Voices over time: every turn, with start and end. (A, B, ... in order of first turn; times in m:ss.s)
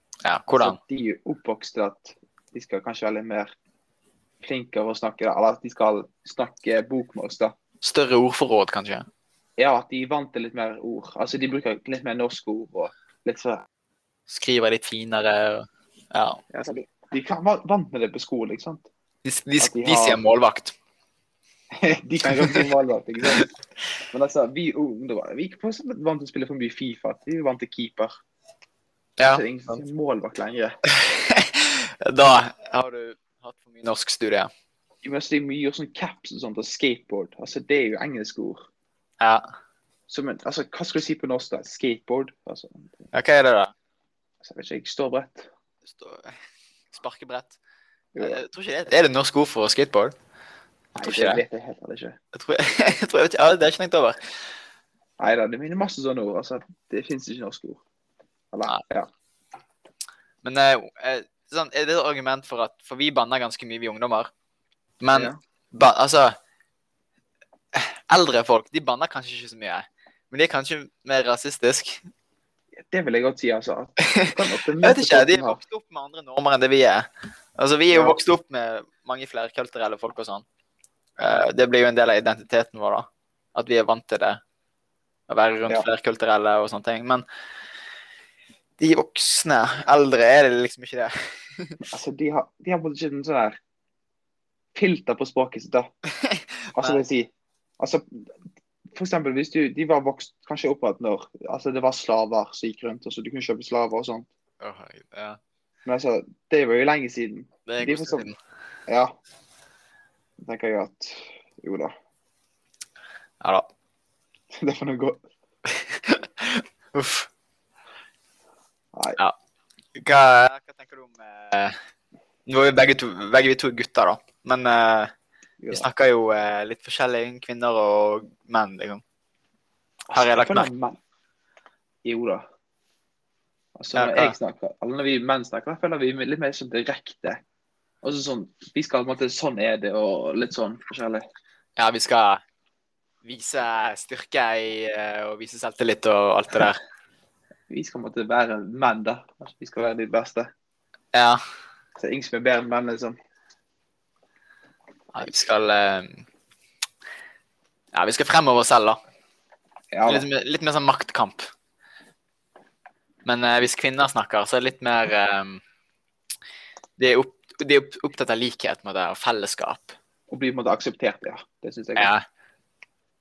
0:00.2-0:00.8 A
0:00.6-0:03.5 B
0:04.4-0:07.5 B
0:07.8-0:09.1 A
0:09.6-0:13.6 B
0:14.3-0:16.4 A
0:16.5-0:18.9 B
0:19.2-0:20.7 A
0:19.6-0:20.2 B
0:21.8-0:23.5 B
0:22.2-0:22.7 A
0:24.1-0:28.1 B
0:29.2-0:29.8 A
0:29.2-0:30.7 B
0:31.0-0:34.5 A
0:35.0-0:38.6 B
0:39.2-0:39.4 A
0:40.1-0:43.1 B
0:43.1-0:43.7 A
0:44.4-0:45.5 B
0:45.9-0:46.3 A
0:46.9-0:47.6 A
0:48.1-0:48.4 B
0:48.2-0:50.1 A
0:51.0-0:51.4 A
0:51.0-0:52.2 B
0:52.3-0:54.2 A
0:55.2-0:57.8 B
0:58.5-0:59.1 B
1:00.4-1:04.3 A
1:05.0-1:06.3 A
1:05.1-1:05.4 B
1:07.7-1:12.0 A
1:12.8-1:15.6 B
1:14.2-1:20.4 A
1:17.9-1:18.2 B
1:21.2-1:24.4 A
1:25.3-1:27.2 A
1:28.8-1:31.8 A
1:31.8-1:33.6 B
1:34.7-1:35.9 B
1:36.2-1:37.0 A
1:36.8-1:38.3 B
1:38.9-1:44.3 B
1:44.6-1:45.4 A
1:45.8-1:48.3 B
1:47.7-1:48.4 A
1:50.4-1:51.9 B
1:53.4-1:53.7 A
1:54.5-1:55.2 B
1:55.7-1:57.3 A
2:00.0-2:01.7 A
2:02.5-2:05.1 A
2:05.6-2:05.9 B
2:05.7-2:09.0 A
2:10.1-2:10.7 A
2:10.1-2:11.0 B
2:12.0-2:12.4 B
2:13.8-2:17.4 B
2:13.9-2:14.4 A
2:18.0-2:21.2 B
2:21.8-2:22.4 A
2:23.2-2:26.8 A
2:27.7-2:30.5 B
2:31.1-2:31.4 A
2:32.0-2:33.2 B
2:35.1-2:36.2 A
2:37.9-2:39.0 A
2:39.9-2:40.3 B
2:40.0-2:41.4 A
2:43.2-2:45.6 A
2:47.0-2:49.9 A
2:50.3-2:52.1 B
2:52.0-2:52.2 A